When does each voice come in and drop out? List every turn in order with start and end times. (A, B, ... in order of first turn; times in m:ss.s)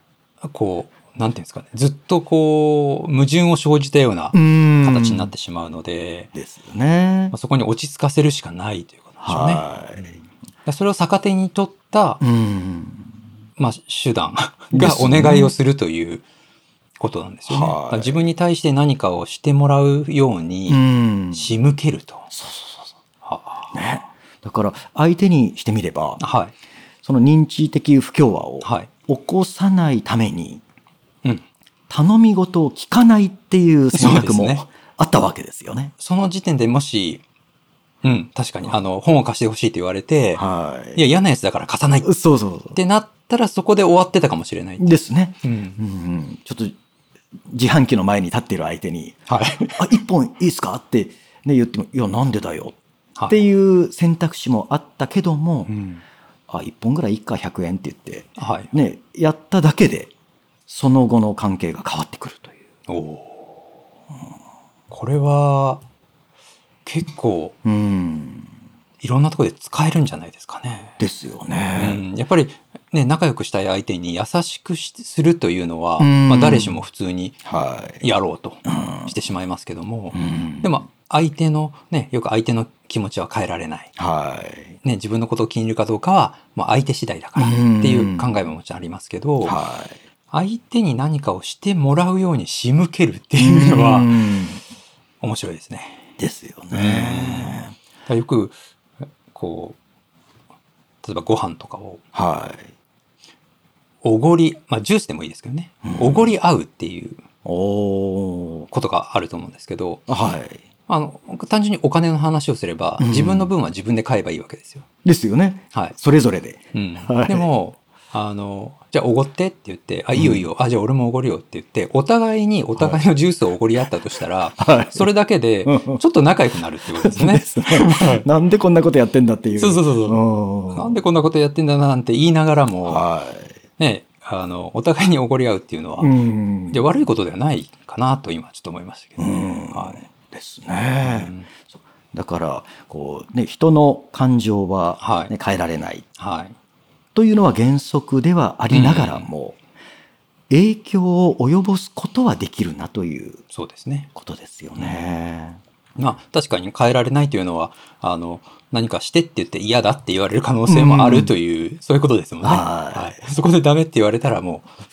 0:00.4-0:06.3 A
0:04.3-0:05.3 B
0:06.4-0:07.4 B
0:07.3-0:12.2 A
0:09.2-0:10.2 B
0:12.2-0:13.1 B
0:13.6-0:16.2 A
0:14.7-0:15.5 B
0:17.0-0:20.8 A
0:17.5-0:18.2 B
0:20.7-0:21.5 B
0:21.3-0:22.3 A
0:22.3-0:22.9 B
0:23.2-0:23.8 A
0:23.7-0:26.2 B
0:26.2-0:26.5 A
0:27.0-0:30.6 B
0:28.6-0:28.9 A
0:31.9-0:35.9 B
0:33.9-0:34.6 A
0:36.0-0:37.2 A
0:38.0-0:40.4 A
0:40.4-0:41.0 B
0:41.0-0:42.1 A
0:42.0-0:42.8 B
0:42.7-0:44.9 A
0:44.8-0:46.8 B
0:45.4-0:45.8 A
0:47.5-0:52.8 B
0:49.3-0:49.9 A
0:53.3-0:55.7 B
0:55.7-0:56.0 A
0:56.5-1:00.1 B
0:58.4-0:58.7 A
1:00.7-1:02.6 B
1:02.9-1:03.6 A
1:04.9-1:05.8 A
1:06.8-1:07.6 A
1:07.6-1:08.5 B
1:09.0-1:11.0 A
1:11.0-1:12.0 B
1:11.8-1:17.4 A
1:16.0-1:16.8 B
1:17.4-1:18.0 B
1:18.0-1:23.9 A
1:18.7-1:19.1 B
1:20.1-1:20.7 B
1:24.0-1:24.8 B
1:24.8-1:29.6 A
1:27.4-1:28.3 B
1:29.4-1:30.0 B
1:30.3-1:34.2 A
1:33.4-1:34.6 B
1:35.2-1:36.0 A
1:36.2-1:37.7 B
1:36.7-1:38.6 A
1:39.3-1:39.8 A
1:41.0-1:42.0 A
1:42.1-1:42.7 B
1:44.0-1:47.2 A
1:45.8-1:46.3 B
1:47.4-1:48.7 B
1:48.7-1:50.0 A
1:50.1-1:50.6 B
1:50.9-1:54.8 A
1:53.0-1:53.5 B
1:55.0-1:57.5 B
1:56.7-2:08.2 A
2:00.2-2:00.5 B
2:04.6-2:05.1 B
2:05.6-2:06.0 B
2:07.0-2:11.0 B
2:09.6-2:10.2 A
2:10.7-2:13.0 A
2:12.9-2:13.6 B
2:13.8-2:16.1 A
2:16.0-2:17.0 B
2:16.7-2:20.0 A
2:19.2-2:21.4 B
2:21.0-2:21.5 A
2:22.1-2:26.1 B
2:25.0-2:25.3 A
2:26.2-2:26.5 A
2:27.2-2:29.6 B
2:28.7-2:29.3 A
2:30.5-2:33.4 B
2:33.5-2:34.1 A
2:34.2-2:35.6 B
2:34.8-2:35.0 A
2:36.0-2:44.7 A
2:40.7-2:41.3 B
2:42.4-2:43.2 B